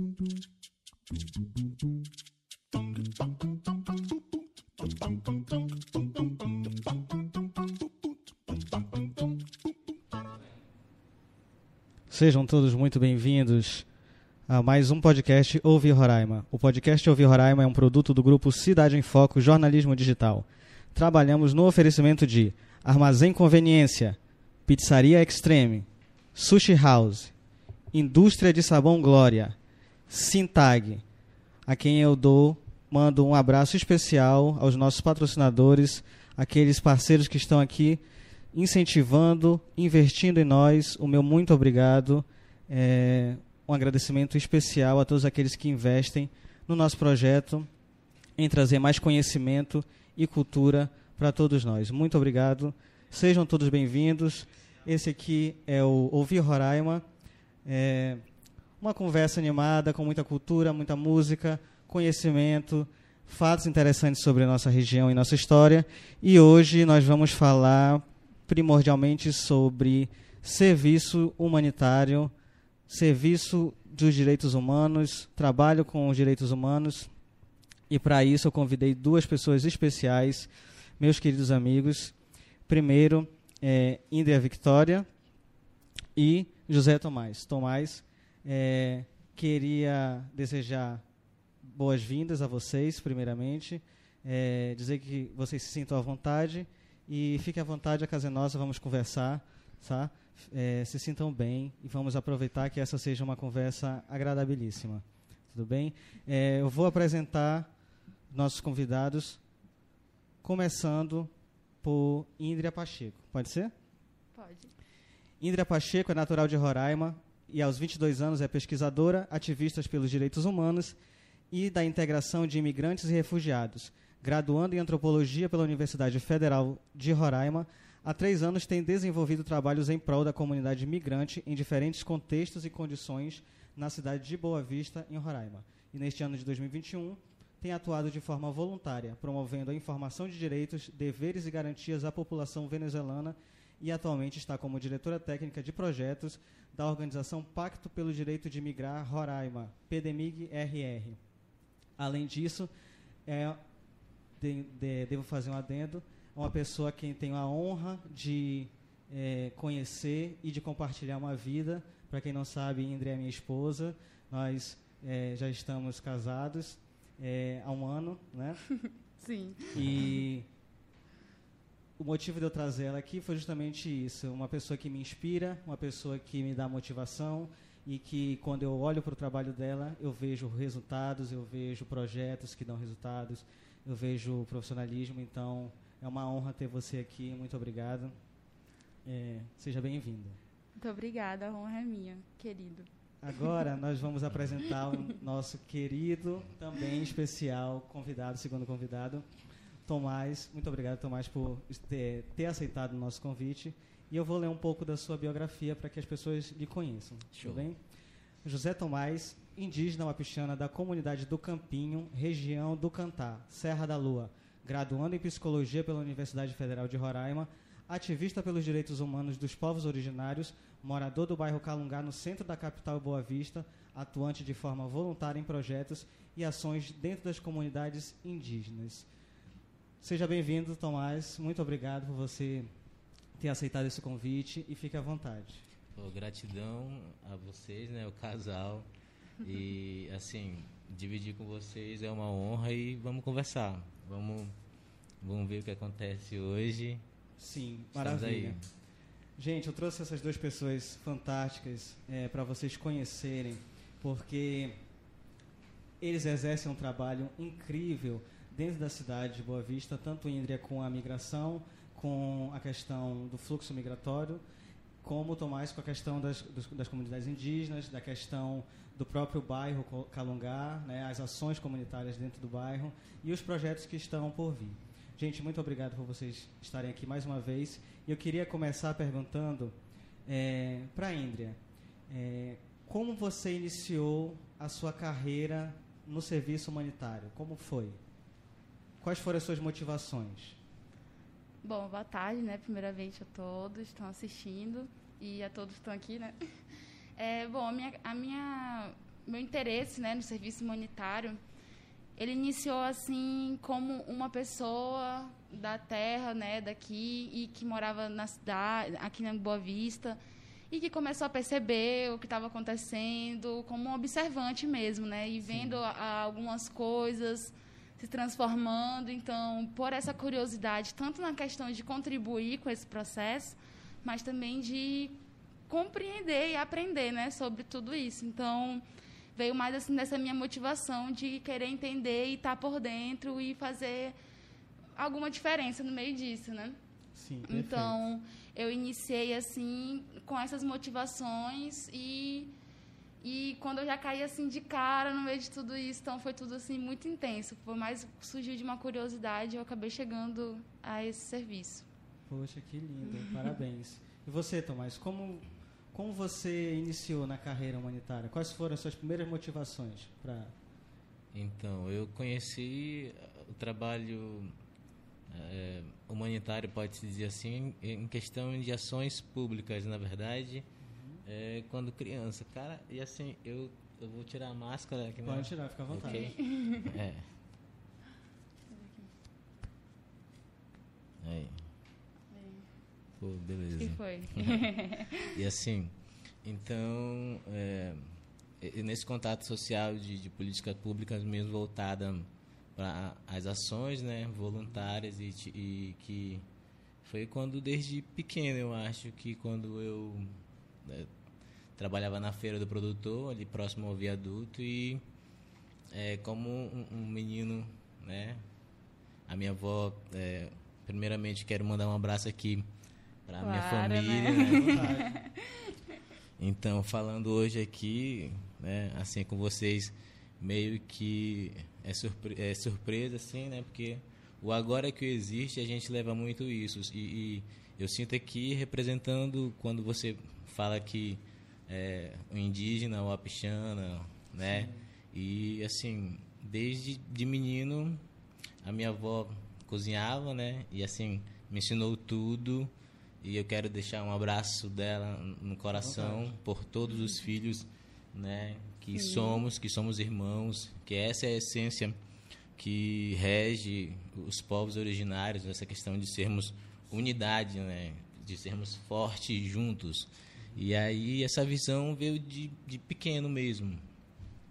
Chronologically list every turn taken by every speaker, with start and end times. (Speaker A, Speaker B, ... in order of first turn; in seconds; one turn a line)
Speaker A: 12.1-13.8
Speaker A: 14.5-27.3
Speaker A: 27.9-29.6
Speaker A: 30.1-31.0
Speaker A: 31.7-47.7
Speaker A: 48.4-57.0
Speaker A: 57.6-58.2
Speaker A: 58.8-72.3
Speaker A: 72.9-77.1
Speaker A: 77.9-82.1
Speaker A: 82.7-85.1
Speaker A: 86.1-91.0
Speaker A: 91.6-107.7
Speaker A: 108.3-109.4
Speaker A: 110.4-111.3
Speaker A: 111.8-113.7
Speaker B: 114.3-114.7
Speaker A: 115.4-121.0
Speaker A: 121.5-151.2
Speaker A: 152.0-152.7
Speaker A: 153.2-153.6
Speaker A: 154.4-168.6
Speaker B: 168.8-169.8
Speaker A: 169.7-170.5
Speaker A: 172.0-188.1
Speaker A: 189.0-190.4
Speaker B: 190.8-193.6
Speaker A: 193.2-199.3
Speaker A: 199.8-207.8
Speaker C: 207.3-207.7
Speaker A: 208.4-229.1
Speaker A: 230.0-232.7
Speaker A: 233.3-235.6
Speaker C: 235.9-238.9
Speaker C: 239.4-244.5
Speaker C: 245.2-247.0
Speaker A: 247.4-248.6
Speaker C: 248.0-248.6
Speaker A: 249.4-254.8
Speaker A: 256.0-264.4
Speaker A: 265.0-288.0
Speaker A: 289.0-290.6
Speaker B: 291.6-296.4
Speaker B: 297.2-301.4
Speaker B: 302.2-310.2
Speaker B: 310.7-325.1
Speaker A: 315.5-315.8
Speaker B: 325.7-328.8
Speaker B: 329.4-334.1
Speaker B: 334.9-336.8
Speaker A: 337.1-338.0
Speaker B: 337.4-342.5
Speaker B: 343.2-351.9
Speaker A: 352.3-360.5
Speaker C: 361.3-364.5
Speaker C: 365.3-370.6
Speaker A: 370.8-371.2
Speaker C: 371.2-377.3
Speaker A: 375.2-376.3
Speaker B: 376.0-376.9
Speaker B: 378.7-379.1
Speaker C: 381.2-381.6
Speaker B: 382.3-382.6
Speaker C: 383.2-384.7
Speaker B: 383.8-385.3
Speaker C: 385.3-385.9
Speaker C: 386.4-388.1
Speaker C: 388.6-396.4
Speaker C: 397.0-401.1
Speaker C: 401.8-405.0
Speaker C: 405.9-408.4
Speaker C: 409.3-412.7
Speaker C: 413.2-415.0
Speaker B: 413.4-415.7
Speaker A: 414.5-415.2
Speaker C: 416.4-438.0
Speaker A: 434.4-434.9
Speaker C: 438.6-442.7
Speaker C: 443.2-452.0
Speaker A: 445.7-446.3
Speaker B: 448.9-449.4
Speaker C: 452.6-463.8